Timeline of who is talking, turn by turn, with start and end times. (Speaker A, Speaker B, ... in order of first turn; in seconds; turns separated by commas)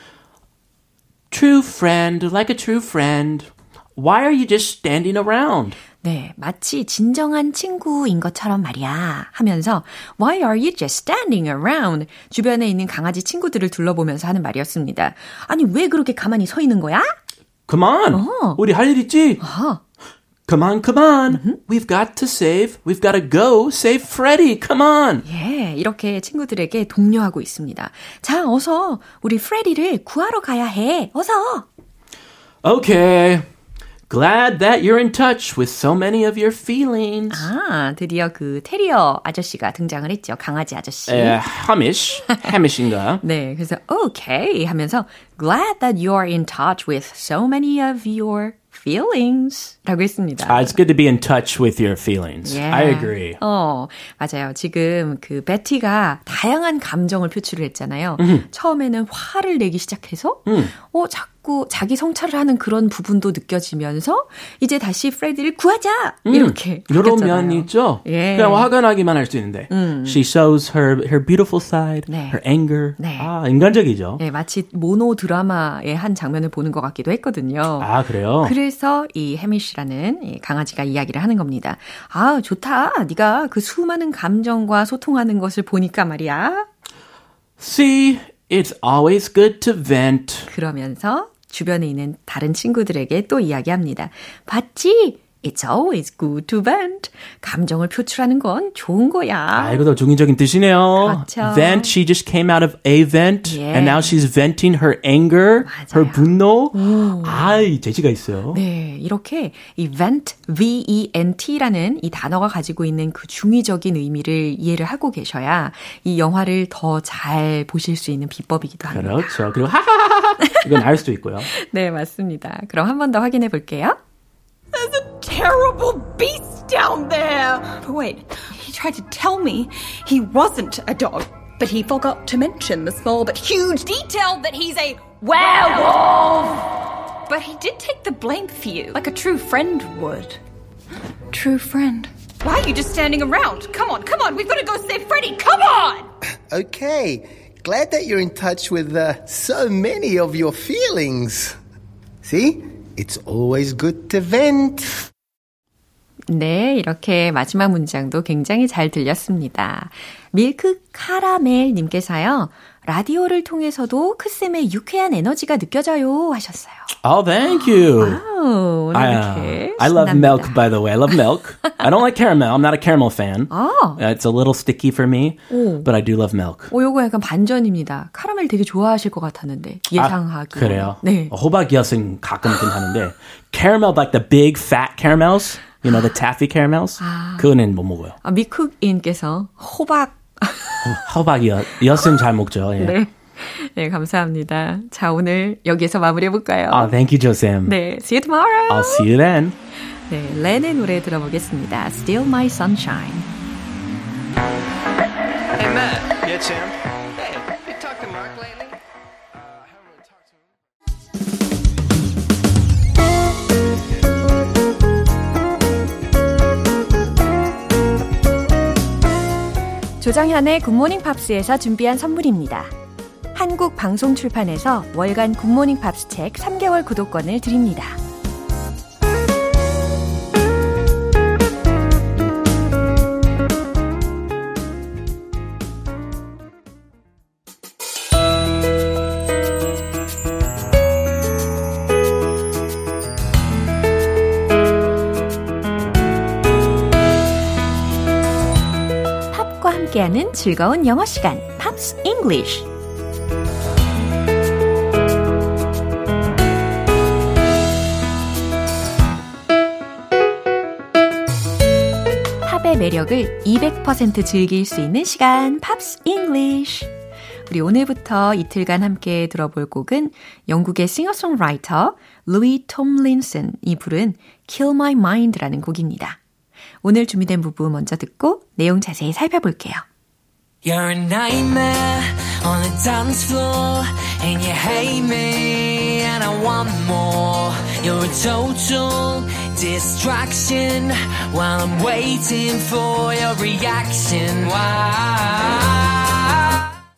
Speaker A: 1.3-5.8, Speaker B: 6.0-17.1, Speaker A: 17.7-19.4, Speaker B: 18.1-18.6, Speaker B: 19.4-19.8, Speaker A: 20.5-25.2, Speaker B: 21.3-21.6, Speaker B: 25.2-31.6, Speaker A: 32.6-33.5, Speaker A: 34.1-37.5, Speaker B: 37.3-41.4, Speaker A: 41.1-43.2, Speaker B: 43.2-50.7, Speaker A: 50.4-53.4, Speaker B: 52.4-68.7, Speaker A: 58.2-58.5, Speaker A: 60.5-60.7, Speaker A: 66.2-74.2, Speaker B: 69.7-70.2, Speaker B: 72.1-72.4, Speaker B: 73.0-73.3, Speaker B: 74.2-86.7, Speaker A: 77.8-78.5, Speaker A: 87.6-90.5, Speaker B: 90.5-99.8, Speaker A: 99.5-108.6, Speaker B: 101.0-101.9, Speaker B: 103.4-104.2, Speaker B: 105.6-107.6, Speaker B: 108.5-119.4, Speaker A: 118.8-121.5, Speaker B: 121.5-124.0, Speaker C: 124.7-136.7, Speaker C: 137.3-140.4, Speaker C: 141.3-146.1, Speaker D: 146.5-151.6, Speaker D: 152.2-155.0, Speaker B: 156.3-166.9, Speaker A: 167.0-168.2, Speaker B: 167.4-170.6, Speaker A: 168.9-176.7, Speaker B: 173.5-174.0, Speaker B: 175.5-175.9, Speaker B: 176.7-181.3, Speaker A: 179.9-188.2, Speaker B: 187.0-187.5, Speaker B: 188.2-191.0, Speaker A: 190.8-192.9, Speaker B: 192.8-196.9, Speaker A: 196.7-197.8, Speaker B: 197.6-199.1, Speaker A: 198.7-199.6, Speaker B: 200.1-203.3, Speaker E: 205.6-208.8, Speaker E: 209.7-210.4, Speaker B: 220.0-222.7, Speaker B: 223.3-228.0, Speaker B: 249.3-252.7, Speaker B: 262.4-266.9, Speaker B: 267.5-276.2, Speaker B: 276.8-279.8, Speaker F: 280.6-296.2